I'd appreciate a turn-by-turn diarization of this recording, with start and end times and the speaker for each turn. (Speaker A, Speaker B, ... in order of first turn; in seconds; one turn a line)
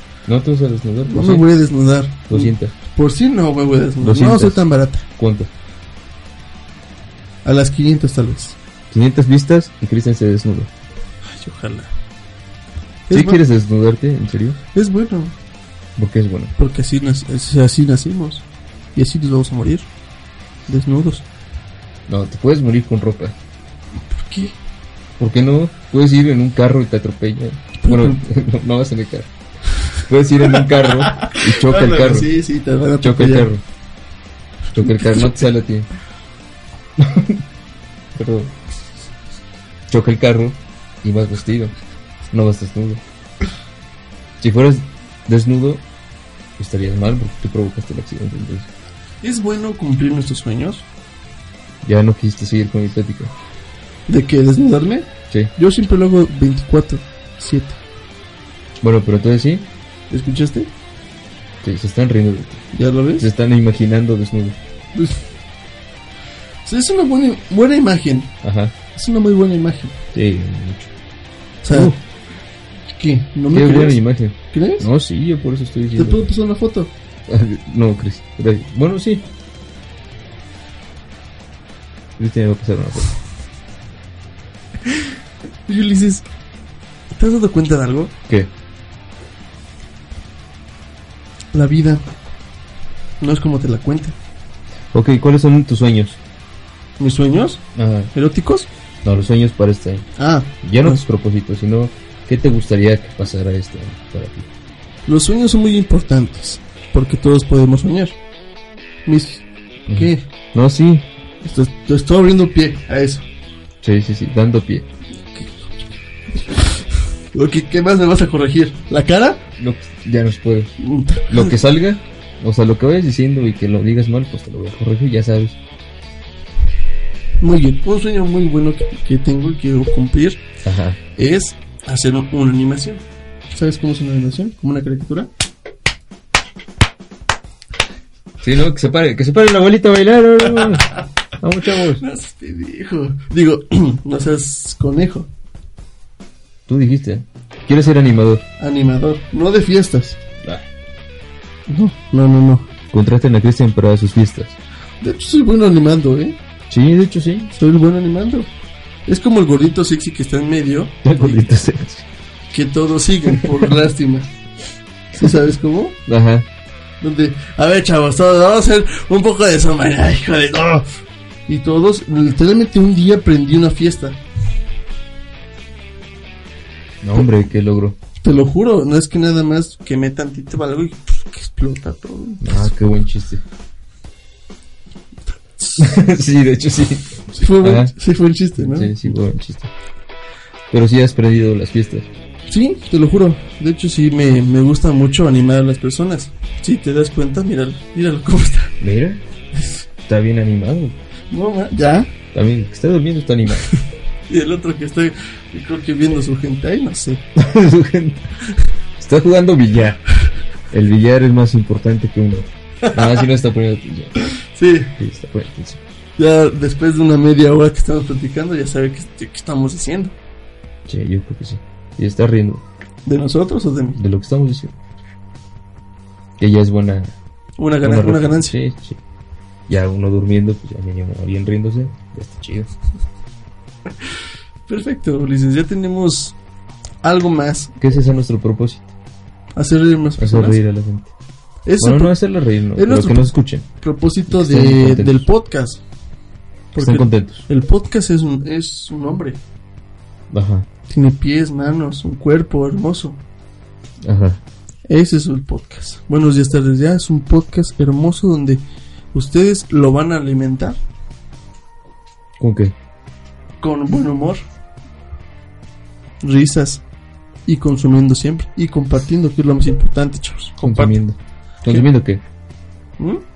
Speaker A: 0.3-1.5
Speaker B: 1.1-5.0
Speaker A: 2.3-2.7
Speaker A: 4.0-5.5
Speaker B: 7.4-8.6
Speaker A: 8.9-10.7
Speaker B: 11.2-11.9
Speaker B: 13.1-13.4
Speaker A: 13.1-14.6
Speaker B: 14.7-15.3
Speaker A: 15.9-16.5
Speaker B: 16.6-19.9
Speaker B: 20.7-21.2
Speaker A: 22.1-23.4
Speaker B: 24.1-24.6
Speaker A: 25.2-29.3
Speaker B: 27.8-28.2
Speaker A: 30.0-32.3
Speaker B: 30.5-33.5
Speaker A: 33.0-33.6
Speaker A: 34.7-35.9
Speaker B: 35.0-35.4
Speaker A: 37.0-37.4
Speaker A: 38.1-38.5
Speaker A: 39.9-41.7
Speaker A: 42.3-43.0
Speaker A: 44.4-45.8
Speaker A: 46.6-48.7
Speaker B: 49.2-50.9
Speaker A: 51.8-53.3
Speaker B: 54.1-57.8
Speaker A: 58.8-59.7
Speaker B: 60.1-60.7
Speaker A: 61.6-64.6
Speaker B: 62.7-63.2
Speaker B: 64.9-65.2
Speaker B: 66.6-68.3
Speaker A: 68.4-68.7
Speaker B: 68.9-70.0
Speaker A: 70.1-70.9
Speaker B: 71.6-72.0
Speaker A: 71.7-72.0
Speaker B: 72.9-74.9
Speaker A: 73.5-76.3
Speaker B: 76.0-76.9
Speaker A: 77.3-79.3
Speaker A: 82.2-83.2
Speaker B: 85.7-86.2
Speaker B: 87.1-88.1
Speaker B: 91.5-92.0
Speaker B: 93.2-94.2
Speaker A: 94.9-96.2
Speaker B: 97.0-98.7
Speaker A: 97.7-98.1
Speaker A: 99.0-100.1
Speaker B: 100.2-101.0
Speaker A: 100.6-104.5
Speaker B: 105.0-108.2
Speaker B: 109.0-110.2
Speaker A: 109.9-111.0
Speaker B: 111.4-113.3
Speaker A: 113.8-114.9
Speaker B: 116.4-119.4
Speaker A: 119.6-120.7
Speaker B: 120.8-121.6
Speaker A: 121.3-125.6
Speaker B: 127.4-130.4
Speaker A: 130.6-131.0
Speaker B: 131.2-135.3
Speaker A: 138.4-142.0
Speaker B: 142.0-145.3
Speaker A: 146.7-148.4
Speaker B: 148.6-150.2
Speaker B: 151.7-152.7
Speaker A: 152.9-154.6
Speaker B: 155.0-156.4
Speaker A: 156.7-157.5
Speaker B: 157.5-158.5
Speaker B: 159.1-161.4
Speaker A: 161.0-162.0
Speaker B: 162.5-164.3
Speaker A: 163.3-163.6
Speaker B: 165.1-166.0
Speaker A: 166.1-166.5
Speaker B: 167.0-170.9
Speaker B: 171.5-174.2
Speaker A: 177.0-178.0
Speaker B: 178.2-182.7
Speaker A: 182.4-183.4
Speaker B: 185.6-185.9
Speaker A: 185.8-187.9
Speaker B: 187.3-189.1
Speaker A: 188.6-189.7
Speaker A: 190.7-192.1
Speaker B: 192.5-198.8
Speaker A: 198.8-199.2
Speaker B: 199.5-199.8
Speaker A: 200.1-201.0
Speaker B: 201.3-202.1
Speaker A: 202.3-203.7
Speaker B: 204.3-207.2
Speaker A: 207.3-208.3
Speaker A: 209.0-210.0
Speaker A: 210.7-214.1
Speaker B: 212.8-213.2
Speaker B: 214.2-214.9
Speaker A: 215.0-215.8
Speaker B: 216.2-220.2
Speaker A: 220.9-222.6
Speaker B: 223.0-224.0
Speaker A: 223.9-224.7
Speaker A: 226.4-227.2
Speaker B: 227.6-228.6
Speaker A: 227.8-229.0
Speaker A: 229.7-232.7
Speaker B: 234.7-236.3
Speaker B: 237.0-237.7
Speaker A: 237.8-238.9
Speaker B: 239.6-240.6
Speaker A: 240.2-241.1
Speaker B: 241.7-242.2
Speaker A: 241.8-243.7
Speaker B: 242.7-245.8
Speaker A: 244.3-245.3
Speaker B: 246.7-249.4
Speaker A: 246.8-247.4
Speaker A: 250.3-250.7
Speaker B: 250.9-253.2
Speaker A: 254.0-254.4
Speaker B: 254.9-260.8
Speaker A: 262.4-262.7
Speaker B: 263.6-264.4
Speaker B: 266.2-266.8
Speaker B: 267.4-271.0
Speaker A: 270.6-272.2